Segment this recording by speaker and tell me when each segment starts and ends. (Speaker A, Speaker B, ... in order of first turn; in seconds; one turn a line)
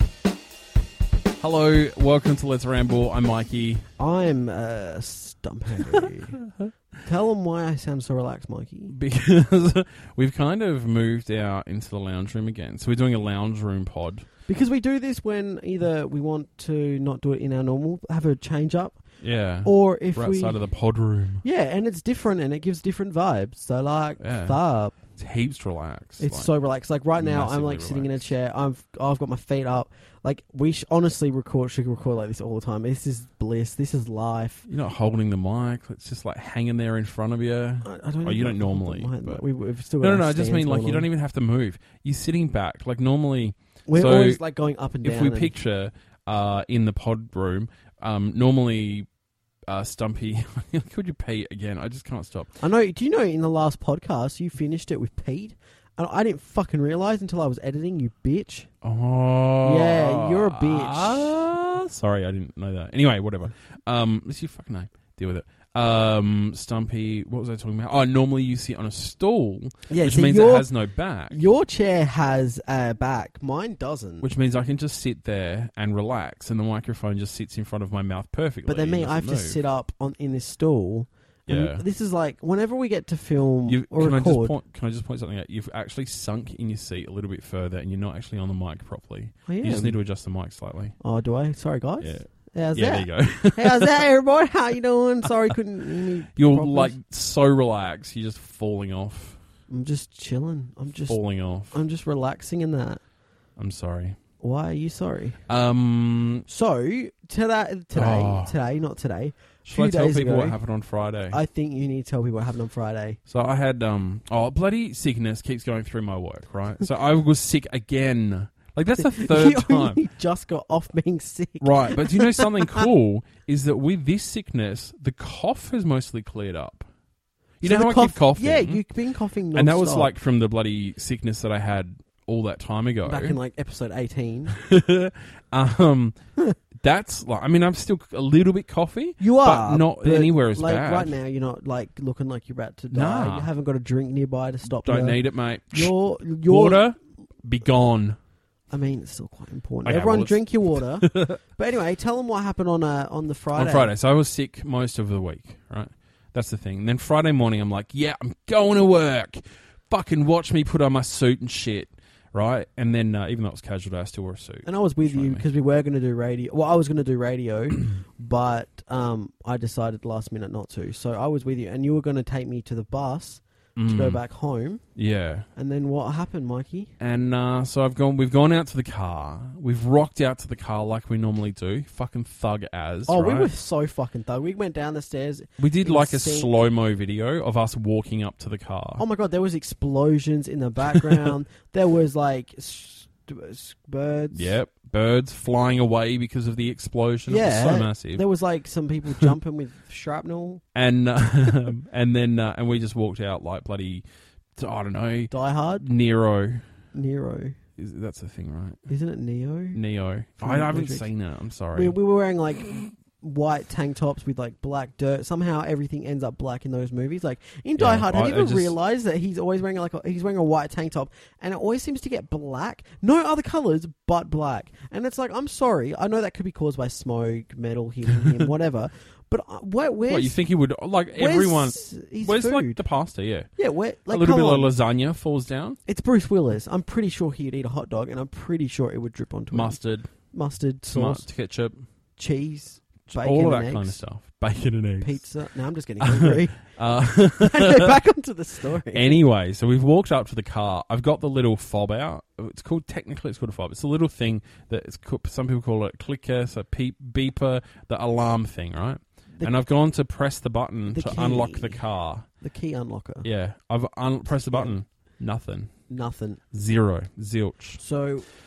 Speaker A: 1.4-3.9
Speaker B: 4.0-6.4
Speaker B: 7.0-8.9
Speaker A: 8.9-14.3
Speaker B: 14.5-19.0
Speaker A: 19.2-21.4
Speaker B: 19.6-20.6
Speaker B: 21.4-25.0
Speaker A: 24.2-24.6
Speaker A: 25.2-26.5
Speaker B: 26.2-34.7
Speaker A: 27.2-28.3
Speaker A: 34.7-39.4
Speaker B: 37.8-41.1
Speaker A: 40.0-44.4
Speaker B: 43.9-45.6
Speaker A: 45.0-49.1
Speaker A: 49.7-52.5
Speaker B: 52.6-58.7
Speaker A: 58.8-71.4
Speaker B: 59.6-61.4
Speaker B: 69.9-70.7
Speaker B: 71.3-74.3
Speaker A: 74.2-79.6
Speaker B: 78.7-84.6
Speaker A: 81.5-81.8
Speaker A: 83.7-91.0
Speaker B: 89.5-90.0
Speaker B: 91.0-97.0
Speaker A: 92.0-94.0
Speaker A: 96.0-99.4
Speaker B: 99.7-101.2
Speaker A: 101.1-101.8
Speaker B: 101.7-103.0
Speaker A: 103.6-104.2
Speaker B: 104.4-105.4
Speaker A: 105.5-106.5
Speaker B: 106.5-110.6
Speaker A: 107.9-108.5
Speaker A: 109.7-111.4
Speaker B: 111.3-113.2
Speaker A: 113.3-120.0
Speaker B: 119.0-122.9
Speaker A: 121.6-126.9
Speaker A: 127.6-128.8
Speaker B: 127.6-130.1
Speaker A: 129.5-133.4
Speaker B: 133.0-134.6
Speaker A: 134.5-136.2
Speaker A: 136.8-141.2
Speaker B: 139.2-146.9
Speaker A: 142.9-143.5
Speaker A: 144.6-148.2
Speaker B: 148.7-153.9
Speaker A: 149.8-151.4
Speaker A: 153.6-165.4
Speaker B: 164.7-174.8
Speaker A: 173.8-174.2
Speaker A: 175.0-175.5
Speaker B: 175.6-176.9
Speaker A: 177.0-183.5
Speaker B: 183.1-186.5
Speaker A: 185.6-189.0
Speaker B: 189.0-194.6
Speaker A: 190.9-191.3
Speaker A: 194.3-198.2
Speaker B: 197.3-200.6
Speaker A: 200.8-204.0
Speaker A: 204.6-206.6
Speaker B: 205.3-205.9
Speaker B: 206.9-207.6
Speaker A: 207.8-208.8
Speaker B: 208.9-209.8
Speaker A: 209.8-211.9
Speaker B: 210.4-211.1
Speaker B: 211.7-230.4
Speaker A: 217.8-218.8
Speaker A: 230.1-233.5
Speaker B: 231.2-232.8
Speaker B: 233.6-234.7
Speaker A: 234.1-235.8
Speaker B: 235.9-239.8
Speaker A: 239.5-240.2
Speaker B: 240.3-241.3
Speaker A: 240.9-241.8
Speaker B: 242.2-244.0
Speaker A: 243.1-245.2
Speaker B: 245.0-246.7
Speaker A: 246.0-247.9
Speaker B: 247.3-249.2
Speaker A: 248.9-262.2
Speaker B: 260.9-261.8
Speaker B: 262.4-263.3
Speaker A: 263.2-265.7
Speaker B: 264.3-264.8
Speaker B: 265.9-266.4
Speaker A: 266.5-267.8
Speaker B: 267.8-268.3